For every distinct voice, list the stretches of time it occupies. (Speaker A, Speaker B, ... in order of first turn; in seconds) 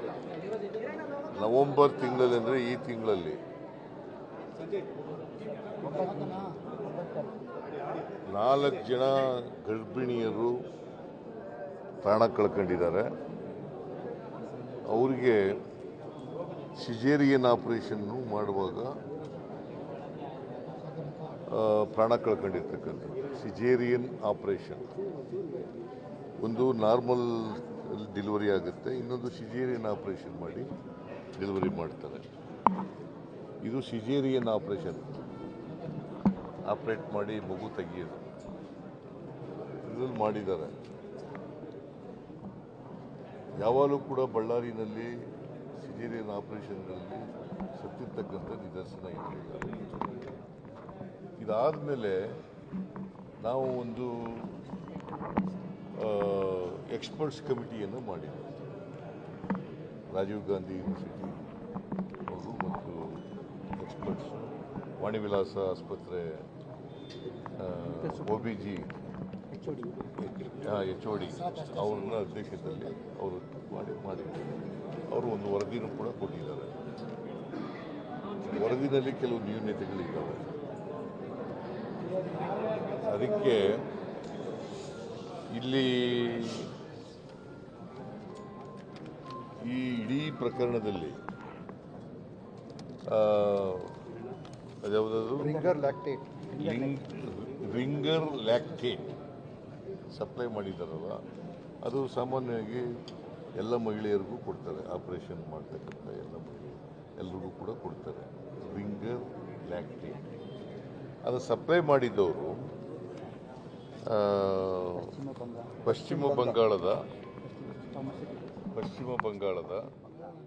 Speaker A: 1.3-3.4, 8.2-10.6, 12.0-13.1, 14.9-15.6, 16.8-19.0, 21.4-24.9, 26.4-30.7, 31.4-32.2, 33.6-35.1, 36.6-38.2, 39.8-40.8, 43.6-45.1, 45.8-49.8, 51.4-52.2, 53.4-54.5, 56.0-58.6, 60.1-61.4, 62.3-63.2, 63.8-66.4, 67.5-68.9, 70.4-76.8, 78.4-80.5, 83.0-83.8, 85.5-86.7, 89.6-91.2, 93.0-94.0, 94.8-95.9, 96.5-99.1, 100.1-101.2, 101.8-102.9, 103.6-110.2, 111.2-112.7, 114.1-115.2, 115.8-117.0, 118.7-119.9
Speaker B: 5.8-7.2, 69.5-69.9, 95.5-96.6, 115.1-116.5, 117.5-118.3